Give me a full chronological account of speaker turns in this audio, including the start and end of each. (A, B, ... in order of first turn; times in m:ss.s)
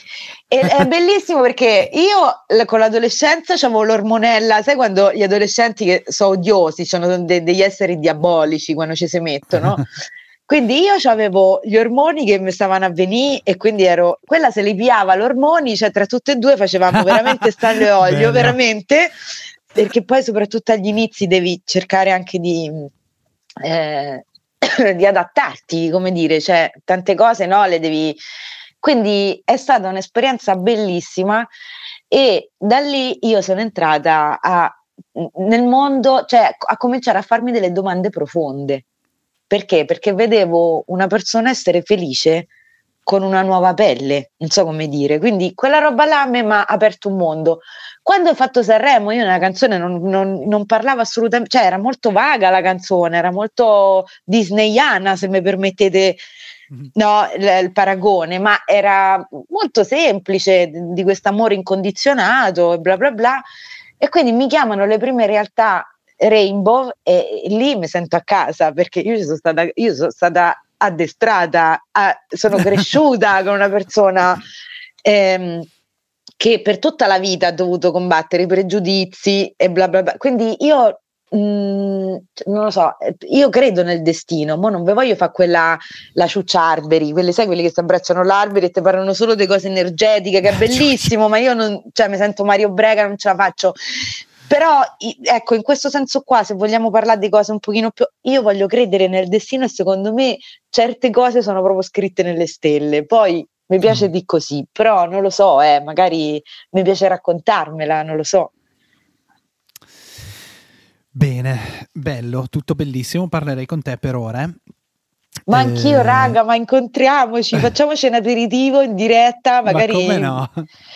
0:00.5-0:09.9 A
0:10.5-0:19.2 A
0:18.0-0:18.6 B
0:19.7-0:22.9 A
0:23.6-0:28.2 A
0:28.8-0:31.5 A
0:32.1-0:38.8 A
0:39.5-0:42.5 A
0:43.0-0:56.2 A
0:56.9-1:03.4 A
1:04.0-1:14.4 A
1:15.0-1:15.7 A
1:16.4-1:48.5 A
1:51.1-1:54.6 B
1:55.5-1:56.4 B
1:55.5-2:00.4 A
1:59.6-2:00.6 B